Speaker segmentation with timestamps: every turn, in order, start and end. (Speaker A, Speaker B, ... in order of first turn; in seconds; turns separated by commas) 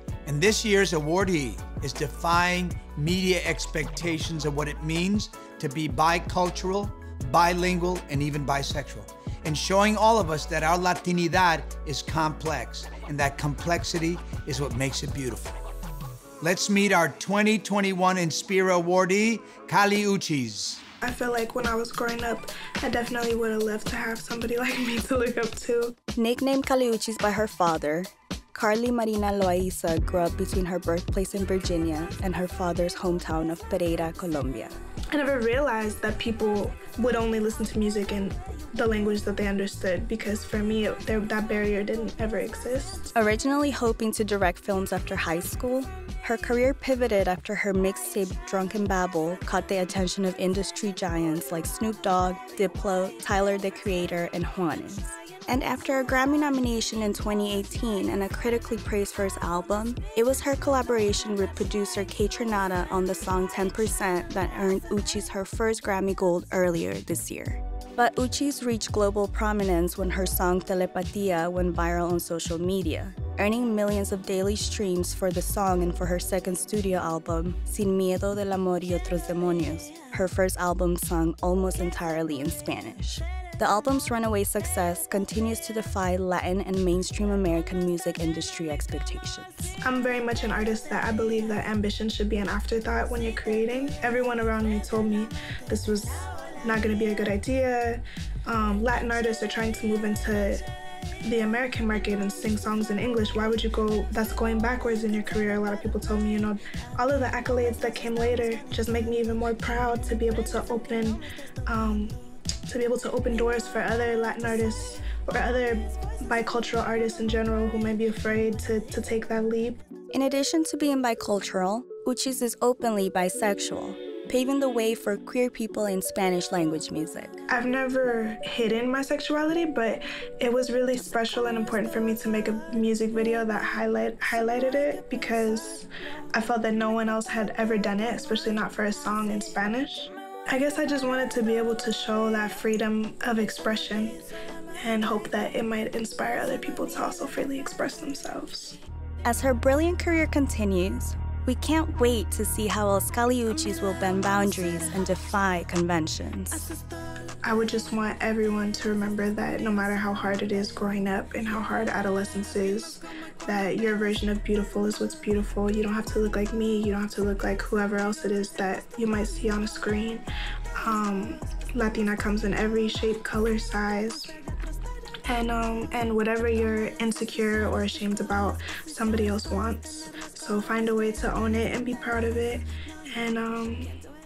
Speaker A: 0.2-15.6, Speaker A: 16.4-20.8, Speaker B: 21.0-25.9, Speaker C: 26.1-34.7, Speaker B: 35.1-43.1, Speaker C: 43.1-89.8, Speaker B: 89.8-100.7, Speaker B: 101.2-119.8, Speaker C: 120.1-127.4, Speaker B: 127.5-144.2, Speaker B: 144.8-148.8, Speaker C: 149.2-156.7, Speaker B: 157.4-170.2, Speaker B: 170.8-174.3, Speaker B: 175.3-184.0